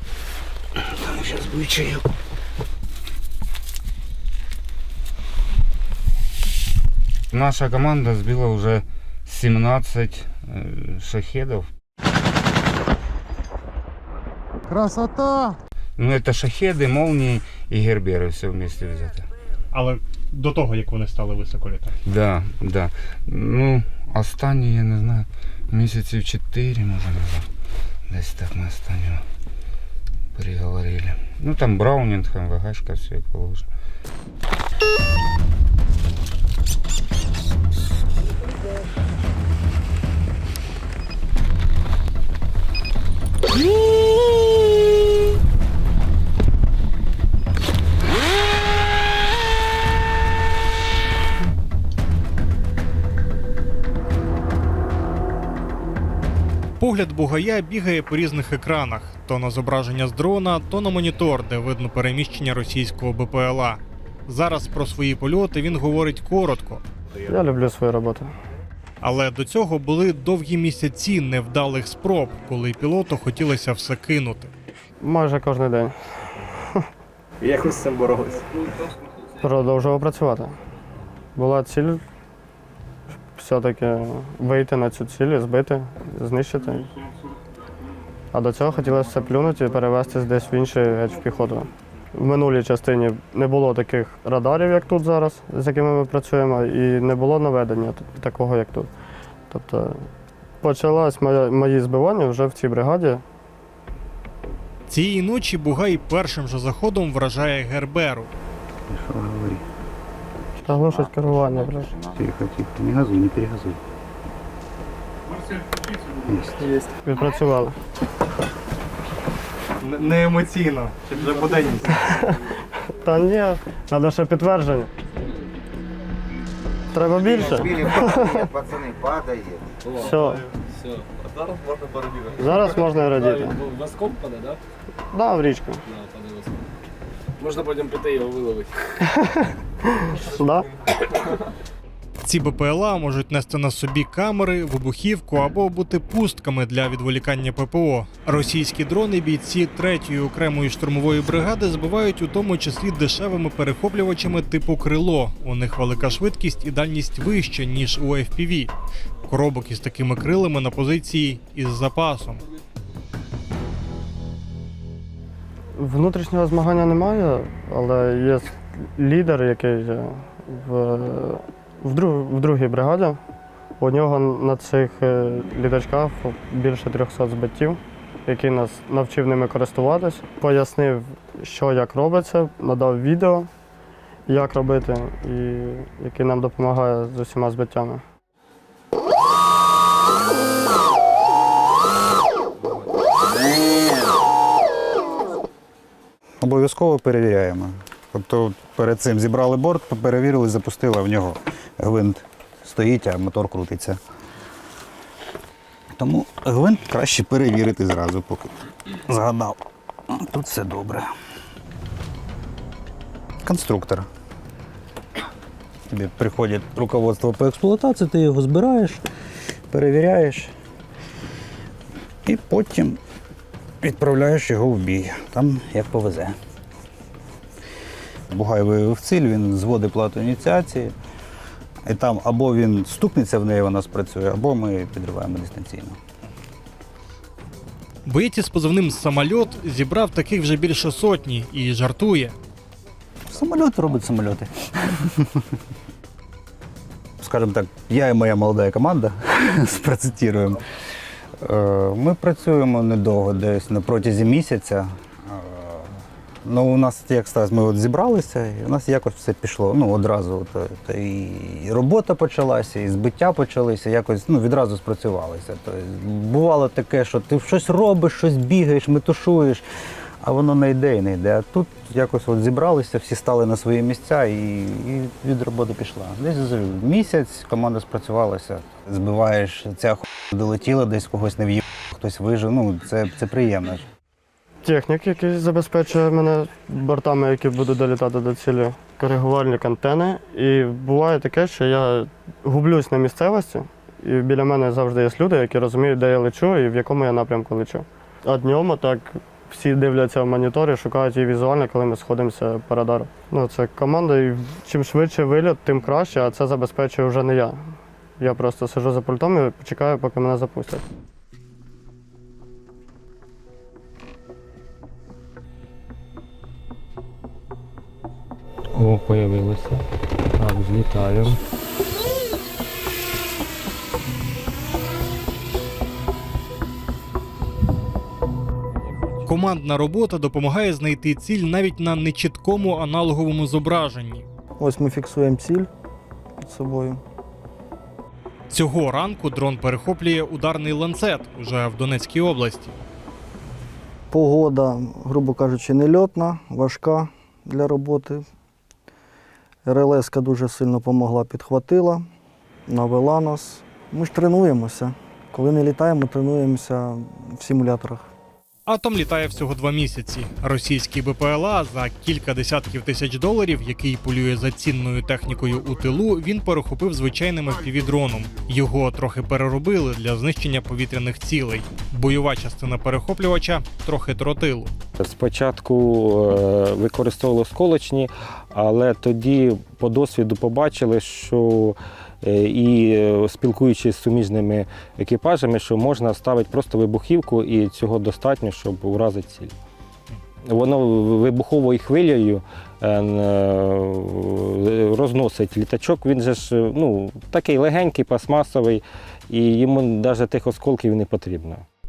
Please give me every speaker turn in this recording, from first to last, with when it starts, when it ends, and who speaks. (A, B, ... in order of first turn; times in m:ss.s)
0:01.2-0:02.0 A
0:07.3-0:11.7 A
0:16.0-0:19.3 A
0:19.7-0:22.0 B
0:22.1-0:27.5 A
0:28.1-0:29.2 A
0:30.4-0:33.7 A
0:56.8-1:06.8 B
1:07.3-1:08.3 C
1:09.0-1:14.5 B
1:15.0-1:15.9 C
1:16.6-1:16.8 C
1:18.2-1:18.9 D
1:19.4-1:20.5 C
1:21.4-1:22.0 C
1:23.4-1:26.9 C
1:28.3-1:38.9 C
1:39.5-1:40.1 C
1:40.6-1:43.2 C
1:44.9-1:48.3 B
1:48.9-1:49.6 E
1:50.6-1:51.9 C
1:52.2-1:53.8 E
1:56.2-1:56.6 E
1:56.9-1:57.8 C
1:59.8-2:01.9 B
2:02.0-2:02.2 C
2:02.9-2:04.9 C
2:06.9-2:08.5 C
2:07.2-2:09.6 F
2:09.8-2:14.6 D
2:10.0-2:10.4 C
2:12.4-2:13.6 C
2:15.1-2:15.8 C
2:15.9-2:16.6 D
2:17.4-2:18.9 D
2:19.2-2:20.7 C
2:22.2-2:38.7 B
2:39.3-2:42.4 B
2:45.8-2:53.2 C
2:53.8-3:03.5 C
3:04.3-3:08.0 C
3:16.4-3:24.0 E
3:25.9-3:28.6 E
3:29.1-3:29.6 E
3:30.1-3:31.1 E
3:33.4-3:34.1 E
3:35.9-3:39.0 E
3:39.7-3:40.5 E
3:42.3-3:43.0 E
3:43.8-3:46.4 E
3:48.3-3:50.9 E
3:51.8-3:56.0 E
3:58.1-4:02.4 B
4:03.3-4:05.4 E
4:07.2-4:10.6 E
4:11.4-4:29.6 E
4:30.2-4:43.8 E
4:44.6-5:07.6 C
5:08.2-5:10.8 C
5:18.8-5:19.8 G
5:20.4-5:21.4 G
5:29.3-5:34.3 B
5:34.6-5:35.7 H
5:36.4-5:37.0 H
5:38.5-5:42.7 B
5:44.1-5:48.3 H
5:49.6-5:52.1 H
5:52.7-5:58.1 H
5:58.7-6:14.7 B
6:15.0-6:29.5 G
6:30.5-6:41.6 G